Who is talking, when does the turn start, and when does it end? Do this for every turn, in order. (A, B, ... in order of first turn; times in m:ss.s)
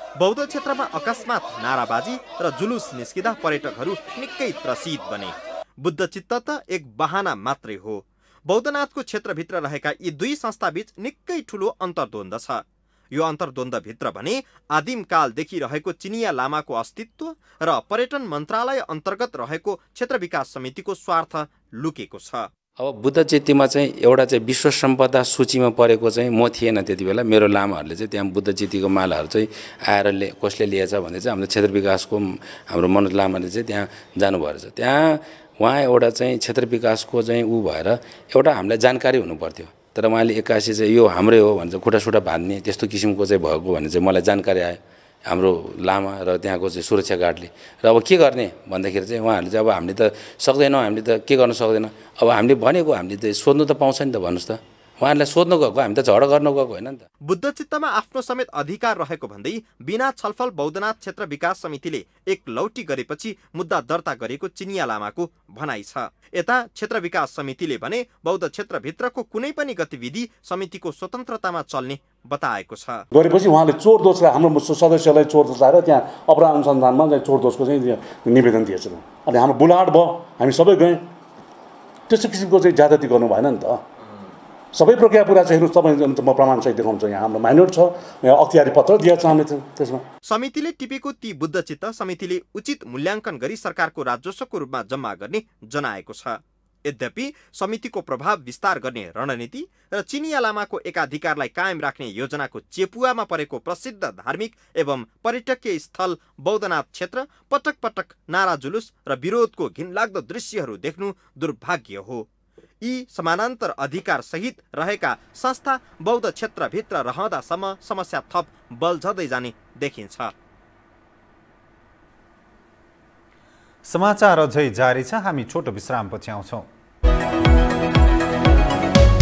0:00.2-0:22.5 A
0:22.8-0:57.0 B
0:57.3-1:13.0 A
1:13.1-1:21.0 C
1:22.1-1:23.8 C
1:24.7-1:30.0 C
1:30.3-1:52.2 A
1:52.8-2:00.3 A
2:03.8-2:06.6 D